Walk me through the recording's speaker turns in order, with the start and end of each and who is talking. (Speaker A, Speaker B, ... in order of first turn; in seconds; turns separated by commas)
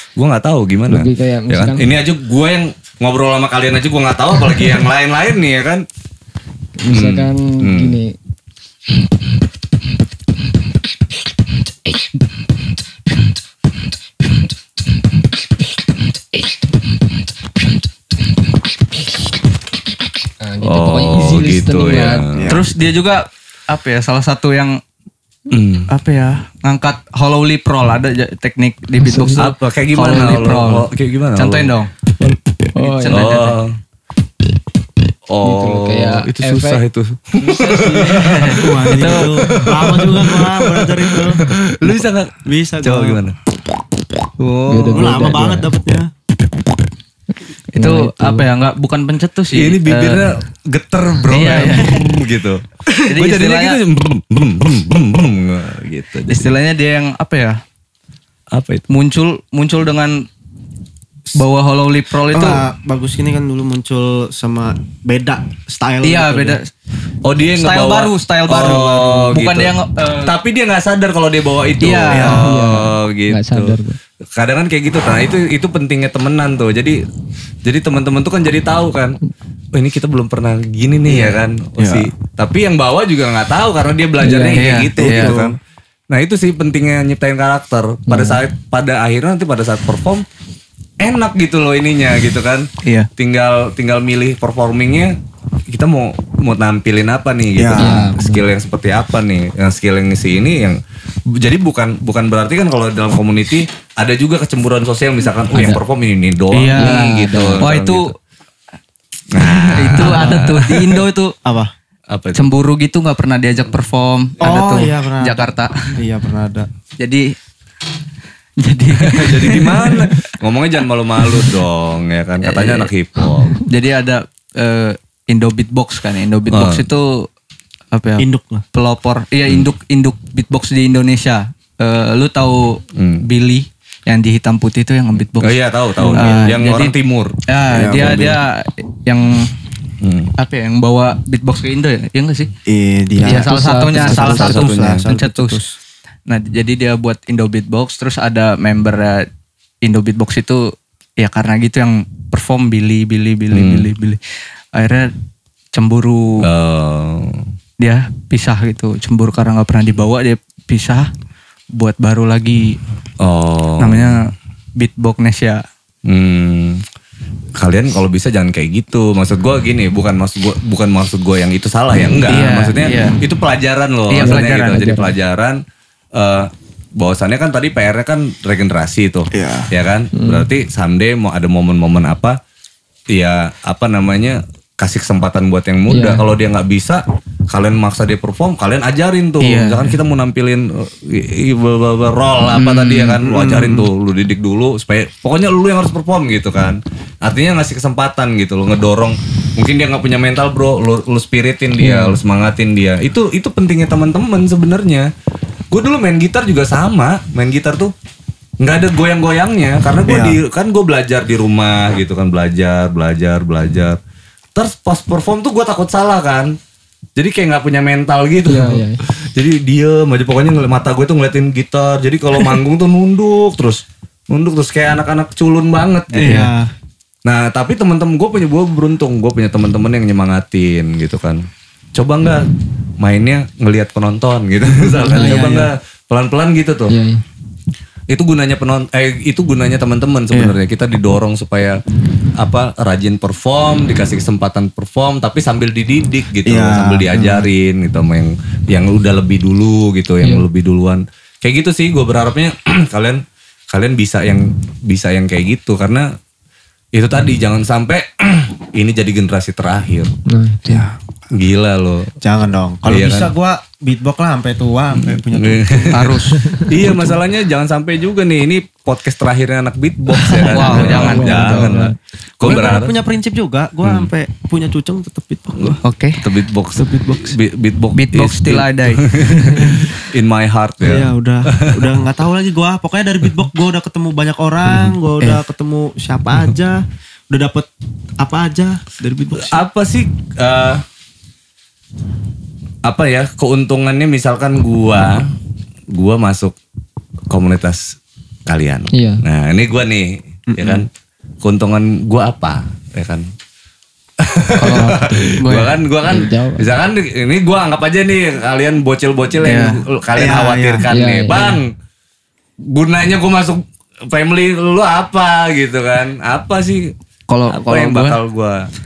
Speaker A: 0.1-5.8, Speaker B: 0.9-1.9, Speaker B: 6.8-8.1, Speaker A: 6.9-8.0, Speaker B: 20.4-22.2, Speaker A: 20.6-22.6, Speaker C: 22.3-22.7, Speaker D: 22.5-24.8, Speaker A: 25.5-25.9, Speaker D: 25.9-31.9, Speaker B: 29.0-29.4, Speaker A: 29.4-31.7, Speaker B: 32.2-33.3, Speaker D: 32.9-33.6, Speaker A: 33.1-33.8, Speaker A: 35.3-43.4, Speaker B: 35.4-36.8, Speaker D: 37.7-39.5, Speaker C: 38.2-41.4, Speaker C: 42.4-43.2, Speaker C: 44.4-46.1, Speaker B: 44.7-45.7, Speaker B: 47.8-48.5, Speaker D: 47.8-50.4, Speaker A: 49.5-56.5, Speaker D: 51.3-52.0, Speaker D: 53.0-53.8, Speaker D: 56.3-57.6, Speaker A: 58.5-58.8, Speaker D: 58.9-60.3, Speaker D: 61.3-62.6, Speaker C: 62.3-66.6, Speaker D: 66.0-66.7, Speaker A: 67.2-73.8, Speaker D: 67.6-70.3, Speaker D: 71.8-72.4, Speaker C: 72.1-72.4, Speaker B: 72.4-74.0, Speaker A: 74.3-77.0, Speaker A: 77.6-79.2, Speaker A: 79.7-85.6, Speaker C: 81.1-82.1, Speaker B: 84.2-84.7, Speaker D: 84.5-85.4, Speaker C: 85.0-85.5, Speaker A: 86.1-90.3, Speaker B: 88.1-88.4, Speaker A: 91.0-95.2, Speaker D: 92.8-93.1, Speaker A: 95.7-100.8, Speaker C: 97.5-98.0, Speaker B: 97.8-98.4, Speaker A: 101.3-108.1, Speaker B: 105.5-105.8, Speaker D: 106.5-108.1, Speaker B: 106.8-107.6, Speaker A: 109.3-111.0, Speaker D: 109.4-111.3, Speaker C: 111.4-111.7, Speaker A: 112.1-112.5, Speaker D: 112.3-115.9, Speaker C: 114.4-116.7, Speaker D: 117.0-117.3, Speaker D: 118.6-120.2, Speaker A: 119.0-123.5, Speaker D: 122.4-122.9, Speaker D: 123.6-127.3, Speaker A: 126.5-126.9, Speaker D: 127.9-136.9, Speaker C: 128.2-128.6, Speaker A: 132.9-133.2, Speaker A: 135.4-138.3, Speaker C: 136.0-136.5, Speaker D: 137.5-139.5, Speaker C: 137.7-138.4, Speaker A: 140.0-140.3, Speaker D: 140.4-142.5, Speaker C: 142.7-145.7, Speaker B: 143.2-144.6, Speaker D: 143.2-145.7, Speaker A: 144.2-145.0, Speaker D: 146.3-149.3, Speaker D: 149.8-154.2, Speaker A: 153.5-153.9, Speaker D: 154.7-155.1, Speaker D: 155.7-156.5, Speaker A: 156.4-157.5, Speaker D: 157.8-161.1, Speaker D: 161.7-162.8, Speaker A: 163.2-164.2, Speaker D: 163.8-165.6, Speaker A: 166.1-166.8, Speaker A: 167.6-175.6, Speaker D: 172.3-173.2, Speaker D: 174.1-174.9, Speaker B: 174.2-175.1, Speaker A: 176.1-182.4, Speaker C: 179.3-179.7, Speaker B: 180.1-180.4, Speaker A: 183.1-205.1, Speaker B: 185.9-186.2, Speaker D: 189.4-189.9, Speaker D: 192.5-193.9, Speaker A: 205.7-207.9, Speaker A: 208.6-214.0, Speaker C: 210.1-210.4, Speaker A: 214.5-216.6, Speaker A: 217.2-226.4, Speaker B: 218.4-219.0, Speaker C: 226.1-226.7, Speaker D: 226.2-226.5, Speaker A: 227.2-231.4, Speaker A: 231.9-232.5, Speaker A: 233.0-236.9, Speaker C: 235.1-235.7, Speaker B: 235.1-235.7, Speaker B: 236.9-237.2, Speaker A: 238.1-241.8, Speaker A: 242.4-256.1, Speaker C: 246.4-247.4, Speaker A: 256.9-260.1, Speaker B: 260.2-260.9, Speaker A: 261.3-262.1, Speaker C: 262.2-266.0, Speaker A: 262.9-263.3, Speaker A: 265.0-273.0, Speaker D: 265.9-266.4, Speaker B: 266.4-266.7, Speaker D: 270.3-271.8, Speaker C: 270.4-271.0, Speaker B: 270.6-271.9, Speaker C: 272.4-275.8, Speaker A: 273.8-274.1, Speaker A: 275.6-281.9, Speaker D: 275.8-276.2, Speaker C: 276.8-277.4, Speaker D: 277.9-280.0, Speaker C: 280.8-289.6, Speaker A: 289.4-290.8, Speaker A: 292.8-295.3, Speaker A: 295.9-296.6, Speaker A: 297.3-300.9, Speaker B: 298.9-299.2, Speaker C: 300.5-300.8, Speaker A: 301.4-303.3, Speaker A: 304.2-311.7, Speaker D: 304.6-305.7, Speaker B: 304.7-305.3, Speaker B: 306.1-306.7, Speaker D: 309.4-309.8, Speaker C: 310.2-310.9, Speaker B: 310.9-311.6, Speaker A: 312.6-316.9, Speaker D: 317.3-318.2, Speaker A: 317.5-318.7